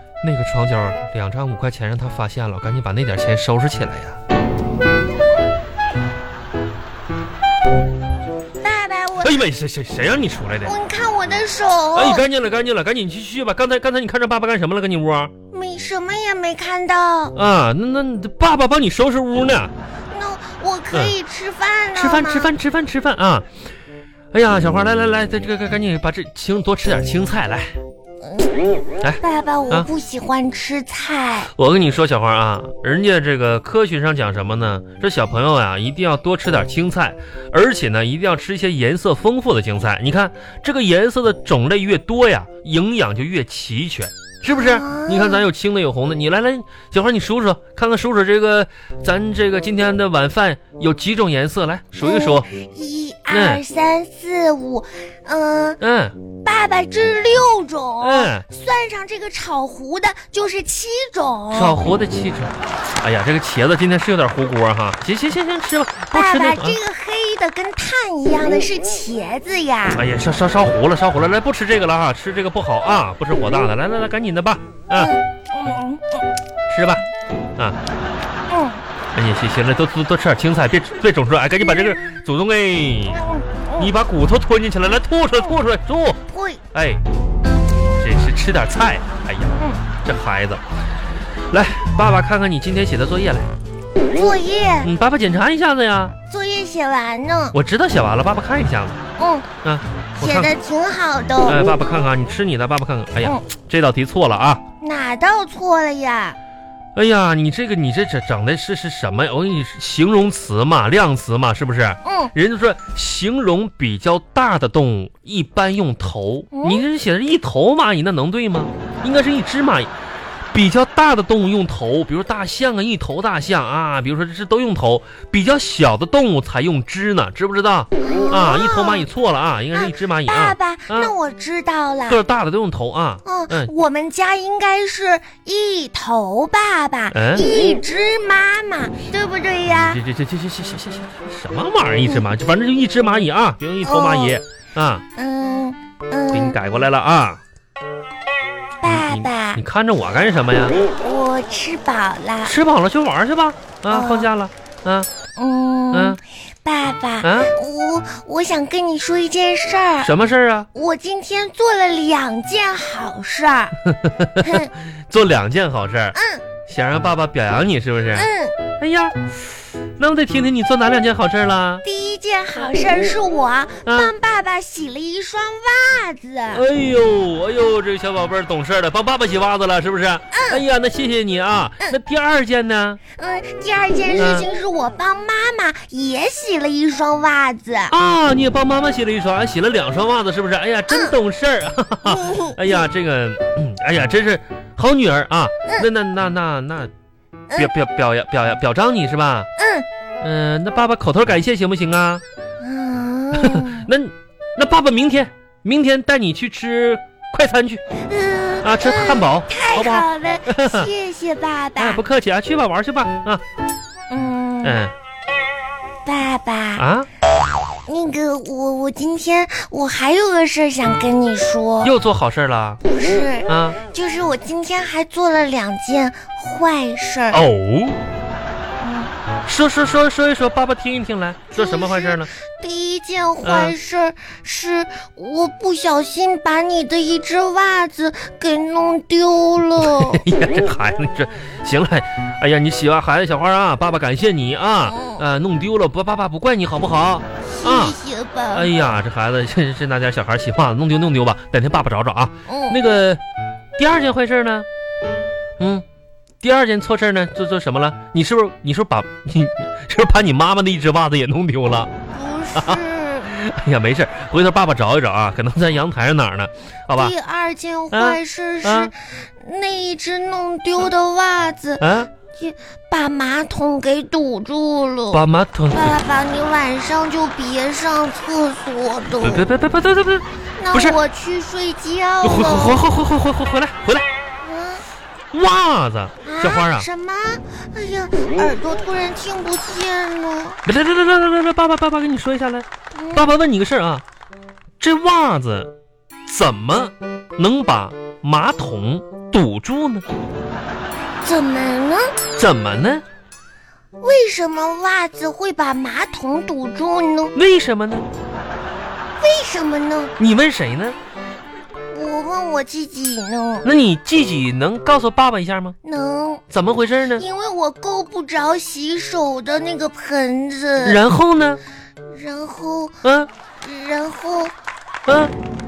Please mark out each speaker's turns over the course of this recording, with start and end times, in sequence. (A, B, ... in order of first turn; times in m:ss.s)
0:00.2-0:04.2 A
0:08.6-0:09.4 B
0:09.2-0:10.7 A
0:10.6-0:12.2 B
0:11.9-0:15.3 A
0:15.5-0:17.3 B
0:17.3-0:19.7 A
0:20.1-0:22.5 B
0:21.9-0:23.4 A
0:24.3-0:27.8 A
0:28.2-0:28.5 B
0:29.0-0:29.9 A
0:29.2-0:31.5 B
0:31.6-0:52.4 A
0:44.5-0:45.5 B
0:52.0-0:55.8 B
0:53.3-0:53.6 A
0:55.8-0:56.2 A
0:56.4-1:01.8 B
0:58.0-0:58.4 A
1:01.5-1:06.8 A
1:06.1-1:10.0 B
1:09.9-1:15.1 A
1:14.9-1:16.2 B
1:16.7-1:17.0 A
1:18.5-1:18.8 B
1:19.1-1:23.2 A
1:21.6-1:22.2 B
1:23.1-1:23.9 B
1:23.8-1:26.2 A
1:26.3-1:26.6 B
1:26.7-1:27.0 A
1:28.0-1:30.6 A
1:31.5-1:33.5 A
1:34.1-1:34.9 B
1:34.8-1:36.1 A
1:36.3-1:37.6 B
1:37.5-1:39.0 A
1:39.2-1:39.5 B
1:39.6-1:40.5 A
1:40.2-1:41.6 B
1:41.4-1:44.6 A
1:44.8-1:46.4 B
1:46.9-1:59.9 A
1:52.0-1:52.3 B
1:56.5-1:56.8 B
2:00.5-2:11.1 A
2:08.0-2:09.1 B
2:09.7-2:12.2 B
2:12.1-2:13.7 A
2:13.2-2:20.0 B
2:17.1-2:17.4 A
2:19.9-2:25.0 A
2:22.0-2:22.3 B
2:23.8-2:24.4 B
2:25.2-2:26.6 B
2:26.3-2:27.4 A
2:28.8-2:29.6 B
2:28.8-2:30.8 A
2:31.0-2:32.5 B
2:32.4-2:35.1 A
2:33.9-2:34.3 B
2:35.4-2:40.1 B
2:35.9-2:36.2 A
2:37.2-2:37.5 A
2:40.0-2:40.7 A
2:40.7-2:43.8 B
2:43.9-2:46.2 A
2:44.4-2:44.7 B
2:46.1-2:46.4 B
2:46.7-2:48.3 A
2:48.1-2:48.6 B
2:48.8-2:49.3 A
2:50.0-2:51.8 A
2:51.8-2:56.6 B
2:53.8-2:54.1 A
2:56.5-3:03.0 A
3:00.3-3:00.6 B
3:03.2-3:07.9 B
3:04.1-3:04.4 A
3:07.9-3:16.9 A
3:10.9-3:11.1 B
3:12.0-3:12.8 B
3:17.5-3:19.5 A
3:19.6-3:19.8 B
3:20.2-3:22.2 A
3:22.6-3:23.9 B
3:23.3-3:27.8 A
3:28.0-3:32.0 B
3:28.6-3:30.9 A
3:31.8-3:33.4 A
3:34.1-3:34.8 B
3:34.6-3:34.9 A
3:36.0-3:36.8 B
3:36.8-3:37.1 A
3:37.9-3:41.9 B
3:41.8-3:42.8 A
3:42.8-3:47.4 B
3:43.5-3:43.8 A
3:47.3-3:48.0 A
3:48.8-3:49.1 B
3:49.4-3:52.3 A
3:51.5-4:00.2 B
3:53.4-3:53.7 A
3:59.8-4:08.0 A
4:04.8-4:05.2 B
4:07.4-4:08.7 B
4:08.5-4:13.2 A
4:12.5-4:12.8 B
4:13.8-4:14.6 A
4:15.6-4:15.8 A
4:16.4-4:21.9 A
4:22.1-4:23.3 B
4:22.5-4:27.1 A
4:26.9-4:39.4 B
4:27.9-4:28.9 A
4:31.8-4:32.1 A
4:35.1-4:36.0 A
4:39.2-4:41.0 A
4:40.6-4:42.8 B
4:42.2-4:44.0 A
4:44.4-4:44.8 B
4:45.3-4:46.9 A
4:46.2-4:50.6 B
4:50.6-4:54.0 A
4:52.9-4:53.3 B
4:54.8-4:55.7 A
4:56.3-5:00.0 A
5:01.2-5:02.1 B
5:02.3-5:03.0 A
5:04.0-5:07.3 B
5:07.3-5:08.1 A
5:09.2-5:10.1 B
5:10.2-5:11.0 A
5:11.9-5:13.7 B
5:13.6-5:15.8 A
5:15.8-5:16.4 B
5:16.5-5:17.2 A
5:17.2-5:21.0 B
5:20.8-5:21.6 A
5:22.1-5:23.0 B
5:23.0-5:23.3 A
5:23.6-5:24.5 B
5:25.1-5:25.3 A